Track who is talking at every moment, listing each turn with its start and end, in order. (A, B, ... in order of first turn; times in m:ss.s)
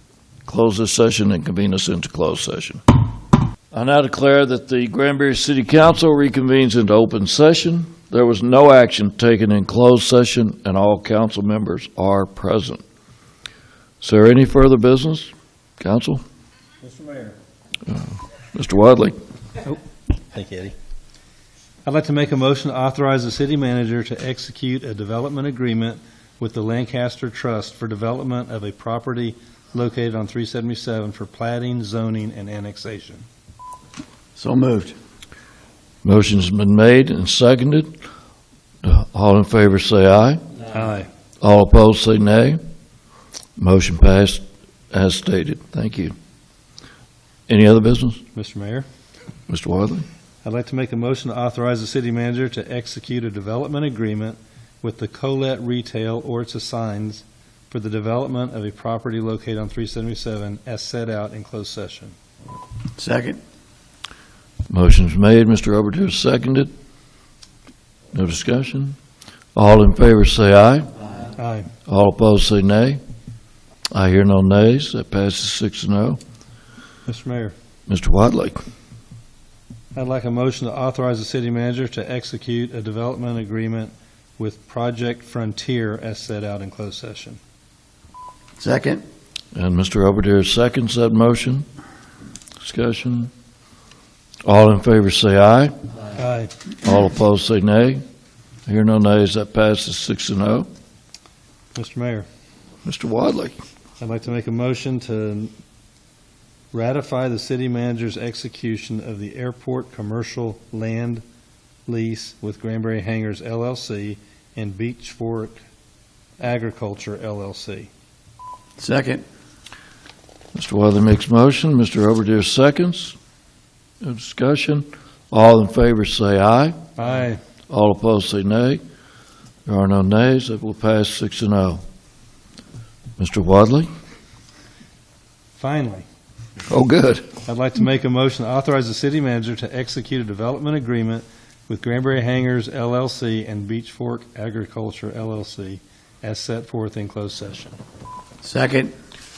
0:00.5-0:02.8 A
0:03.7-0:12.8 A
0:14.0-0:16.2 A
0:16.8-0:17.4 B
0:17.9-0:19.2 A
0:20.3-0:20.8 B
0:21.9-0:33.2 B
0:34.4-0:35.0 C
0:36.0-0:37.9 A
0:38.8-0:40.4 A
0:40.7-0:41.1 B
0:41.4-0:42.6 A
0:43.6-0:46.1 A
0:47.5-0:48.2 A
0:48.3-0:48.9 B
0:49.5-0:50.0 A
0:50.4-1:02.2 B
1:03.0-1:03.4 C
1:04.7-1:06.7 A
1:08.1-1:09.0 A
1:09.6-1:10.9 A
1:11.4-1:11.7 B
1:11.9-1:13.0 A
1:13.9-1:16.2 A
1:17.1-1:17.6 B
1:17.9-1:18.6 A
1:20.0-1:27.4 B
1:28.6-1:29.0 C
1:29.5-1:31.6 A
1:32.6-1:33.3 A
1:34.4-1:35.8 A
1:36.2-1:36.5 B
1:36.8-1:38.0 A
1:38.7-1:40.7 A
1:41.8-1:42.3 B
1:42.8-1:43.6 A
1:44.0-1:45.5 B
1:46.7-1:51.2 B
1:51.9-1:55.6 B
1:56.4-1:57.9 B
1:58.8-1:59.2 C
2:00.5-2:03.2 A
2:04.0-2:06.8 A
2:07.0-2:07.4 B
2:07.7-2:08.8 A
2:09.7-2:11.8 A
2:13.2-2:13.9 A
2:15.6-2:16.0 B
2:16.7-2:17.3 A
2:17.5-2:27.8 B
2:28.4-2:28.9 C